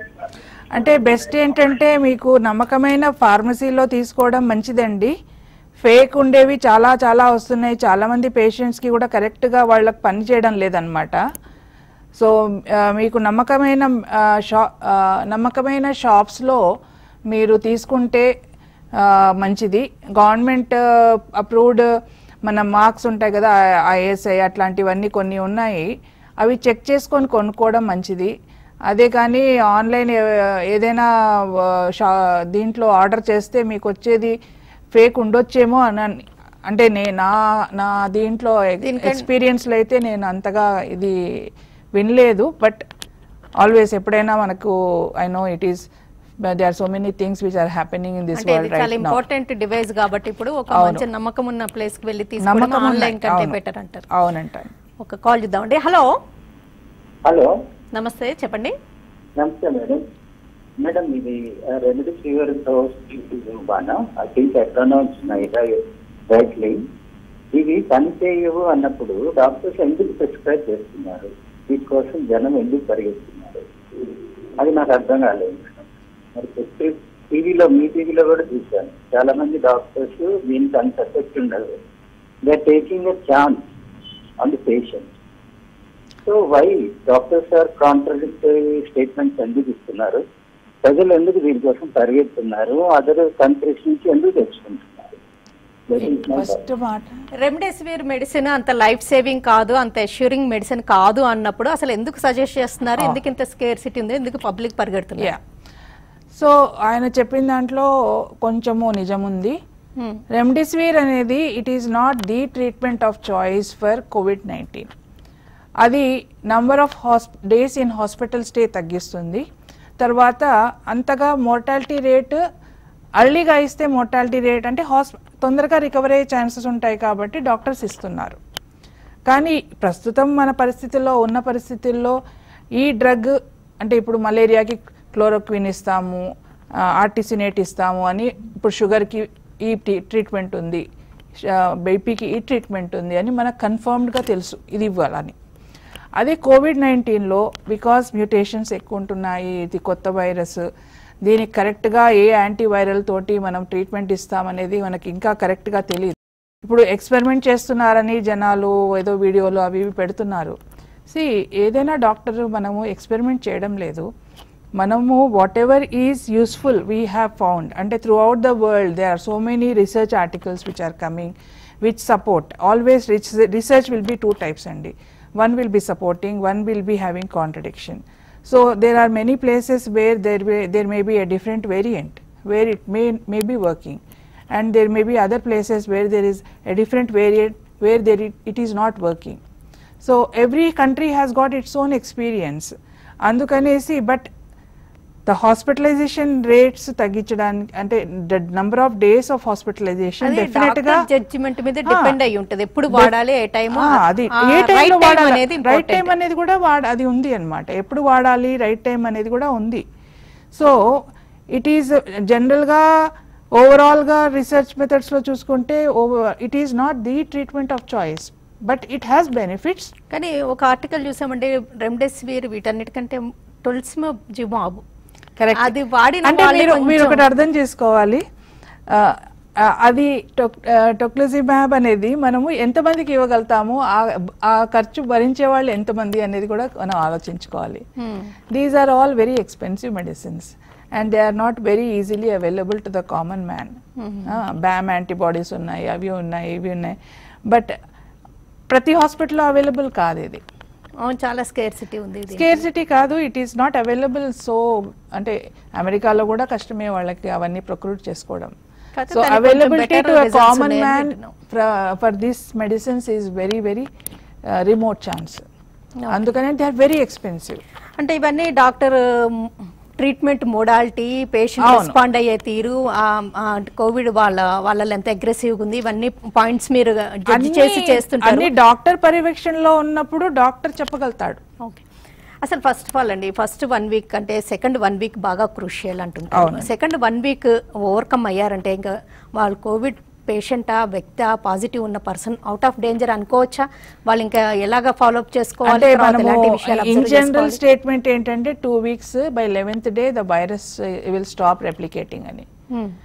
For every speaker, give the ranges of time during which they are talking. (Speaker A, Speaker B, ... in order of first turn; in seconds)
Speaker A: 0.7-5.1, 5.8-11.2, 12.2-16.6, 17.3-18.3, 19.0-21.9, 22.4-25.9, 26.4-28.3, 28.9-34.4, 34.9-41.1, 42.0-42.8, 43.6-45.9, 46.4-49.2, 50.7-51.0, 52.4-53.6, 54.1-54.7, 96.0-97.2, 106.3-107.9, 108.4-109.6, 110.3-114.9, 115.8-119.5, 120.0-122.4, 123.2-128.4, 129.3-132.2, 132.8-136.3, 136.9-140.8, 141.4-145.3, 146.2-150.6, 151.2-160.6, 161.1-164.1, 164.8-184.0, 184.5-189.4, 190.0-194.3, 195.3-201.1, 201.9-202.2, 203.7-209.8, 210.5-219.9, 225.4-228.2, 228.9-237.8, 238.5-247.0, 247.5-247.7, 248.7-250.4, 252.3-258.5, 259.1-263.9, 264.5-265.4, 266.1-267.6, 271.6-272.0, 277.3-281.4, 286.3-286.7, 295.6-302.5
Speaker B: 38.8-39.3, 48.4-54.1, 55.0-56.1, 57.9-58.7, 97.4-105.3, 110.0-110.2, 200.2-206.1, 220.1-224.8, 225.6-227.2, 238.0-238.3, 244.0-244.4, 251.0-252.6, 259.0-261.3, 266.0-266.3, 268.0-278.5, 282.4-297.6
Speaker C: 57.3-57.5, 59.4-60.0, 60.8-66.8, 67.5-75.8, 76.3-81.7, 82.5-83.6, 84.4-85.1, 86.2-90.2, 90.8-95.2, 95.9-96.6